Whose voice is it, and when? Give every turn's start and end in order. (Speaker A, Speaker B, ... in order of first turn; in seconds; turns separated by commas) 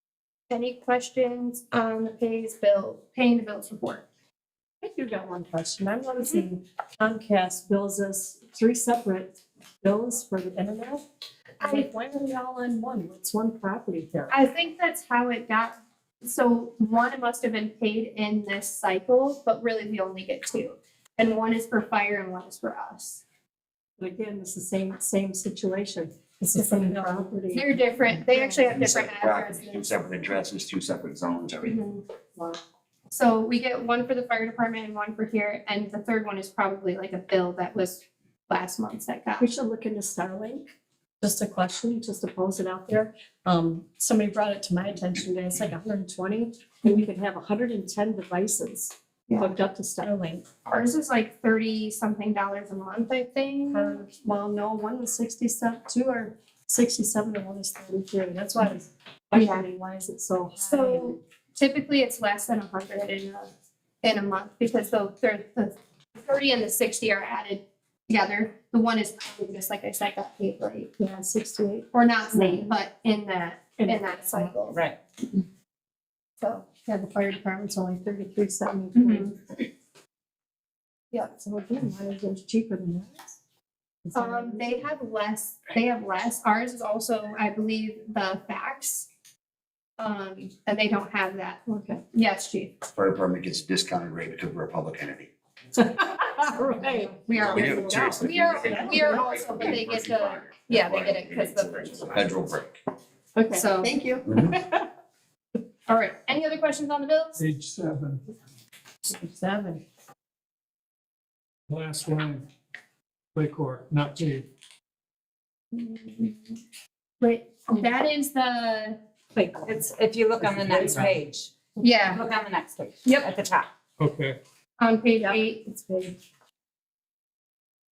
Speaker A: 0.5-4.0, Speaker B: 4.8-11.0, Speaker B: 11.6-14.3, Speaker A: 11.6-11.9, Speaker A: 14.3-23.2, Speaker B: 24.0-27.8, Speaker A: 27.0-29.9, Speaker C: 28.7-31.8, Speaker A: 31.6-32.0, Speaker A: 33.1-39.5, Speaker B: 39.4-40.7, Speaker B: 41.2-50.5, Speaker A: 50.6-54.0, Speaker B: 53.7-61.2, Speaker A: 59.3-59.7, Speaker A: 60.6-63.5, Speaker A: 64.0-70.9, Speaker B: 71.0-72.7, Speaker A: 71.9-74.8, Speaker B: 73.8-74.6, Speaker D: 74.7-75.0, Speaker A: 76.4-76.7, Speaker B: 76.9-79.3, Speaker D: 79.0-79.3, Speaker B: 81.4-83.4, Speaker B: 84.0-84.8, Speaker A: 84.1-89.1, Speaker A: 90.0-92.8, Speaker B: 91.7-92.0, Speaker C: 92.9-95.3, Speaker B: 96.2-98.1, Speaker A: 97.1-102.2, Speaker C: 97.3-102.8, Speaker B: 98.7-99.3, Speaker B: 103.4-104.4, Speaker A: 103.5-103.9, Speaker C: 104.3-104.5, Speaker A: 105.9-107.4, Speaker E: 107.4-108.2, Speaker B: 109.0-109.8, Speaker E: 111.7-112.5, Speaker E: 113.3-114.5, Speaker A: 115.7-116.6, Speaker A: 117.2-119.0, Speaker B: 119.3-119.8, Speaker D: 119.6-121.5, Speaker B: 120.7-121.1, Speaker E: 120.7-121.1, Speaker A: 121.8-122.2, Speaker D: 122.1-123.7, Speaker A: 123.0-123.3, Speaker E: 124.0-124.4, Speaker A: 124.8-125.7, Speaker B: 125.2-126.2